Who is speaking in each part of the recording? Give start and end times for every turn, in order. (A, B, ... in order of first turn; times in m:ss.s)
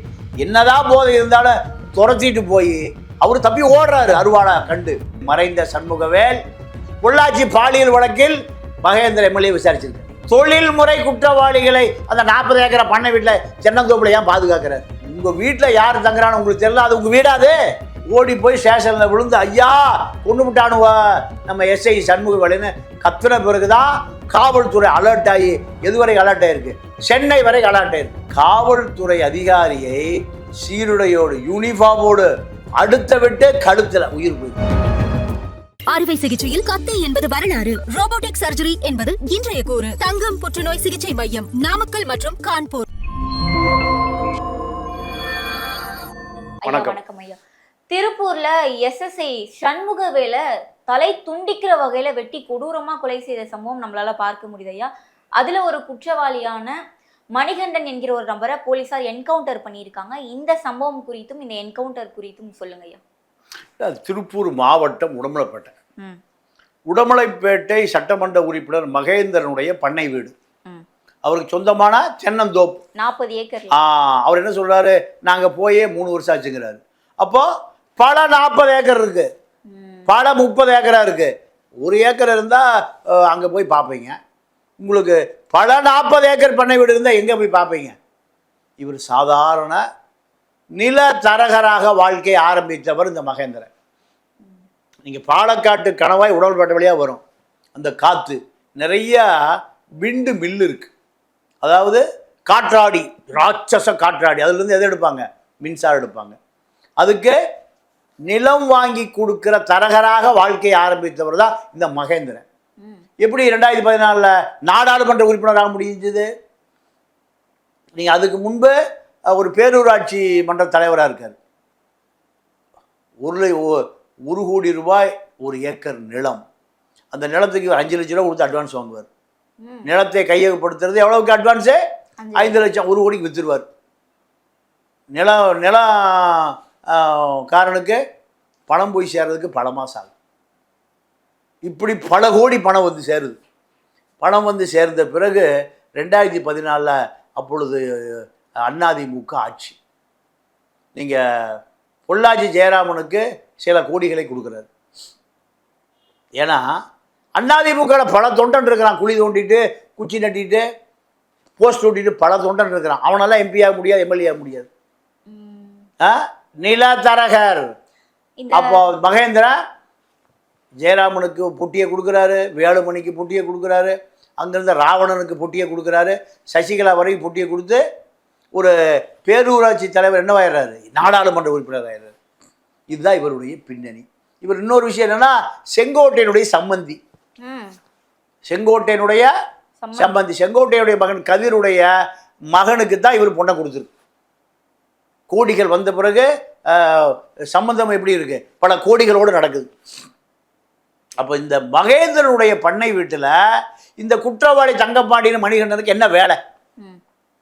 0:00.4-0:06.4 A
0:07.0-0:17.6 A
0:18.1-0:30.1 A
0:30.6-0:32.3 A
0:32.8-0:34.6 A
0:35.9-0:42.9 B
0:46.6-0:47.4 C
0:46.7-0:47.0 A
0:47.9-0:56.7 C
0:57.4-1:03.0 C
1:03.8-1:05.7 A
1:06.9-1:10.3 A
1:11.2-1:12.8 A
1:13.0-1:13.7 C
1:13.7-1:17.5 A
1:18.0-1:19.3 A
1:19.7-1:20.1 C
1:20.1-1:21.3 A
1:21.8-1:24.2 A
1:24.8-1:28.0 A
1:28.8-1:29.8 A
1:30.8-1:33.7 A
1:35.1-1:37.2 A
1:37.8-1:39.3 A
1:40.0-1:40.9 A
1:41.6-1:46.4 A
1:47.0-1:47.4 A
1:48.3-1:52.4 A
1:53.2-1:56.3 A
1:58.0-1:58.7 A
1:59.3-2:01.4 A
2:03.2-2:06.4 A
2:07.1-2:09.1 A
2:09.6-2:09.9 C
2:09.8-2:11.8 A
2:12.2-2:12.6 C
2:12.4-2:13.6 A
2:15.1-2:18.0 A
2:18.7-2:20.1 A
2:21.7-2:23.4 A
2:24.2-2:25.4 A
2:26.0-2:29.8 A
2:32.1-2:34.7 A
2:36.4-2:36.7 A
2:37.4-2:40.6 A
2:41.6-2:44.7 A
2:45.3-2:45.9 C
2:46.0-2:47.7 A
2:48.4-2:48.8 C
2:48.5-2:49.6 A
2:50.8-2:57.8 A
2:58.6-3:02.1 A
3:02.9-3:07.0 A
3:07.4-3:07.8 C
3:08.5-3:09.3 A
3:09.8-3:10.2 C
3:10.0-3:11.9 A
3:12.5-3:13.9 A
3:15.3-3:19.7 A
3:21.2-3:23.4 A
3:24.0-3:26.4 A